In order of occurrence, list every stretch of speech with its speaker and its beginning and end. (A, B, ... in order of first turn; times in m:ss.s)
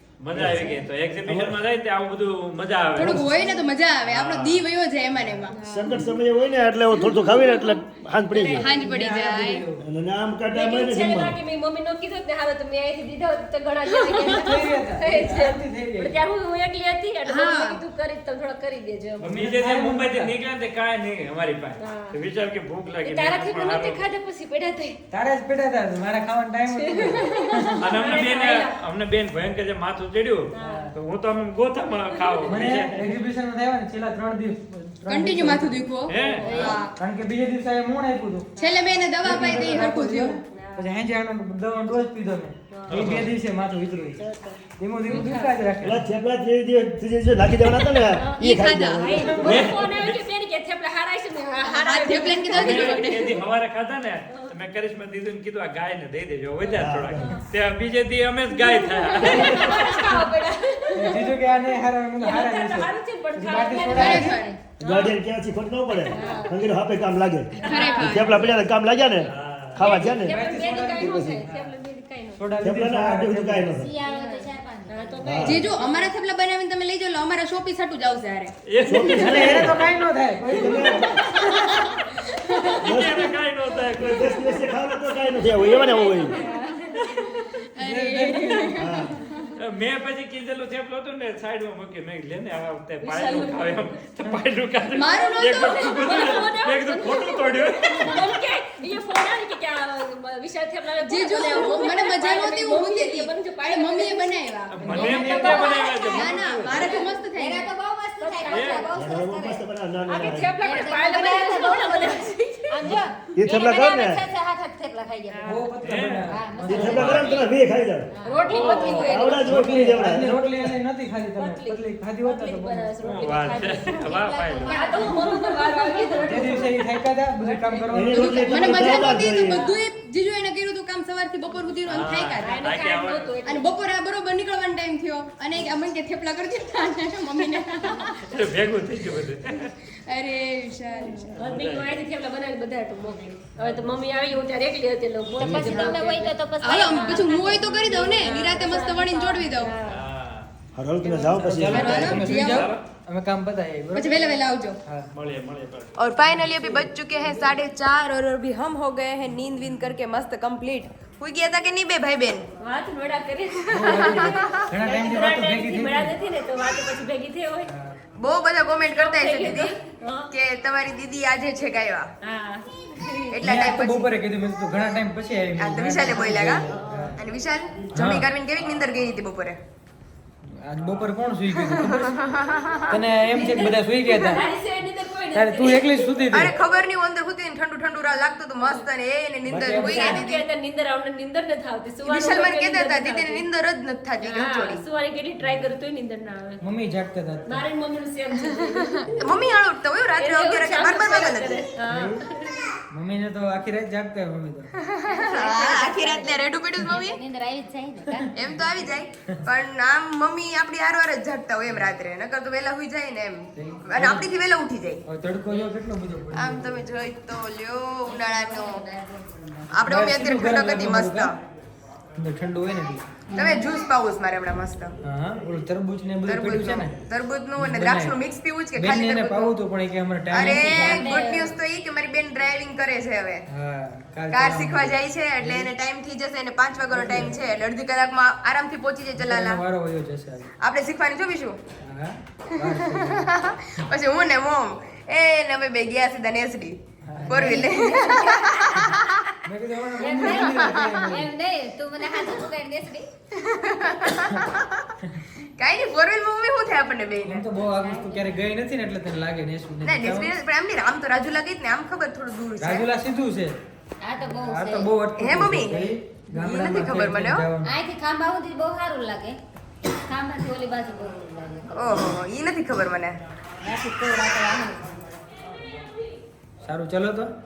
0:00.2-0:03.3 A
0:00.3-0:01.6 B
0:03.0-0:05.6 C
0:04.0-0:04.6 A
0:05.5-0:06.0 D
0:05.6-0:08.6 B
0:08.3-0:08.8 D
0:08.6-0:09.6 C
0:08.7-0:09.8 E
0:09.8-0:11.4 B
0:10.5-0:19.3 D
0:14.3-0:16.1 E
0:17.2-0:17.8 C
0:19.2-0:24.0 A
0:19.3-0:20.3 E
0:21.8-0:22.1 D
0:23.0-0:25.0 D
0:25.1-0:27.8 E
0:26.8-0:28.8 D
0:27.8-0:33.0 A
0:30.5-0:30.9 D
0:30.6-0:30.9 E
0:32.1-0:32.6 D
0:32.4-0:35.8 E
0:35.1-0:36.9 C
0:36.1-0:36.7 A
0:36.2-0:36.8 D
0:36.4-0:38.5 E
0:38.6-0:38.9 D
0:38.6-0:40.4 C
0:39.2-0:46.0 E
0:40.5-0:40.9 D
0:42.7-0:43.0 D
0:42.9-0:43.3 A
0:44.2-0:44.6 B
0:45.1-0:45.5 D
0:45.8-0:49.6 B
0:47.8-0:53.4 D
0:48.4-0:49.1 C
0:49.2-0:49.6 E
0:49.4-0:50.2 A
0:51.6-0:53.4 C
0:51.9-0:52.3 E
0:52.5-0:59.9 A
0:56.7-0:57.3 B
0:58.6-1:01.6 D
0:59.2-0:59.7 B
1:00.9-1:04.4 E
1:02.2-1:05.1 D
1:03.9-1:04.6 F
1:03.9-1:04.5 C
1:04.8-1:10.4 B
1:06.0-1:06.7 D
1:07.6-1:08.6 D
1:07.6-1:08.4 C
1:09.2-1:09.9 A
1:09.8-1:12.4 D
1:10.2-1:11.7 E
1:11.0-1:11.4 B
1:12.4-1:13.7 E
1:12.6-1:13.9 B
1:13.7-1:15.4 F
1:14.0-1:16.1 D
1:15.2-1:15.6 B
1:15.4-1:18.5 C
1:18.7-1:19.9 A
1:18.8-1:19.8 B
1:19.1-1:21.4 E
1:20.4-1:21.2 B
1:21.3-1:22.8 C
1:22.8-1:23.3 B
1:22.8-1:24.2 A
1:23.9-1:26.4 B
1:25.4-1:27.4 D
1:27.3-1:29.1 C
1:27.8-1:28.9 E
1:28.8-1:29.2 B
1:29.6-1:38.3 A
1:33.0-1:34.0 D
1:34.9-1:36.5 C
1:35.0-1:47.1 D
1:41.0-1:47.7 C
1:44.7-1:46.9 A
1:44.9-1:46.2 E
1:46.7-1:49.6 F
1:48.2-1:48.9 D
1:48.5-1:48.9 A
1:48.9-1:50.5 B
1:50.1-1:53.8 D
1:50.6-1:55.6 F
1:52.9-1:54.2 B
1:55.3-1:55.7 D
1:55.4-1:57.3 E
1:55.8-1:56.3 A
1:56.3-1:57.5 F
1:56.7-2:00.7 B
1:56.9-1:57.3 A
1:57.0-1:57.5 D
1:58.2-1:59.4 F
1:58.2-1:59.9 D
1:58.5-1:59.0 A
1:58.6-1:59.0 C
1:59.3-2:03.0 E
2:01.4-2:09.8 D
2:03.0-2:04.9 A
2:03.8-2:06.2 F
2:04.8-2:05.6 C
2:06.2-2:08.5 E
2:07.9-2:09.6 B
2:08.5-2:12.6 C
2:11.9-2:13.3 A
2:12.4-2:13.7 D
2:13.4-2:18.4 C
2:18.2-2:19.7 A
2:19.9-2:21.3 C
2:20.9-2:30.0 D
2:21.3-2:21.9 A
2:25.3-2:28.2 F
2:25.4-2:26.0 E
2:26.6-2:29.7 C
2:29.9-2:30.5 A
2:30.7-2:32.2 B
2:31.0-2:34.2 E
2:31.7-2:32.7 C
2:32.1-2:32.8 A
2:33.9-2:34.8 C
2:34.8-2:35.1 E
2:35.1-2:35.9 A
2:36.0-2:42.5 C
2:36.2-2:36.9 E
2:42.6-2:47.7 D
2:43.6-2:44.7 C
2:43.7-2:46.1 E
2:47.7-2:47.9 E
2:48.2-2:49.7 C
2:48.9-2:50.3 D
2:50.3-2:52.1 C
2:52.2-2:53.5 D
2:53.3-2:54.1 C
2:53.4-2:57.2 E
2:55.6-2:59.6 C
2:57.9-2:58.3 E
3:00.5-3:02.2 E
3:01.7-3:03.0 C
3:02.9-3:04.4 E
3:03.3-3:06.5 D
3:05.3-3:06.5 E
3:06.3-3:10.4 C
3:08.6-3:08.8 D
3:09.4-3:10.2 E
3:09.7-3:13.4 D
3:12.1-3:14.8 C
3:14.2-3:16.6 D
3:15.4-3:15.7 E
3:16.6-3:17.6 E
3:17.4-3:19.4 D
3:18.7-3:21.8 C
3:20.2-3:22.7 D
3:21.8-3:22.2 E
3:22.9-3:24.7 E
3:24.8-3:27.2 C
3:25.1-3:28.3 F
3:28.3-3:35.0 C
3:33.6-3:34.3 E
3:35.0-3:36.8 E
3:36.3-3:38.8 C
3:38.0-3:39.8 F
3:39.7-3:41.3 C
3:39.8-3:41.3 E
3:42.2-3:43.1 E
3:43.3-3:43.6 F
3:43.4-3:44.9 C
3:45.0-3:47.0 E
3:46.2-3:49.5 C
3:47.6-3:48.2 E
3:48.7-3:51.1 E
3:50.3-3:53.4 C
3:50.6-3:51.5 F
3:53.5-3:55.7 E
3:54.3-3:59.6 C
3:56.9-3:57.4 E
3:59.2-4:00.5 E
4:00.6-4:01.6 C
4:01.8-4:03.3 E
4:02.6-4:09.4 C
4:07.0-4:07.8 E
4:07.3-4:08.9 F
4:09.4-4:11.3 E
4:10.0-4:13.1 F
4:10.2-4:10.7 C
4:13.4-4:15.0 C
4:15.6-4:17.4 C
4:17.2-4:20.3 E
4:17.7-4:18.4 F
4:19.8-4:22.9 C
4:22.6-4:23.6 E
4:24.0-4:24.9 F
4:24.2-4:27.7 E
4:25.2-4:27.4 C
4:27.6-4:29.4 F
4:29.9-4:32.0 F
4:31.7-4:33.2 C
4:33.6-4:35.2 F
4:36.6-4:37.3 E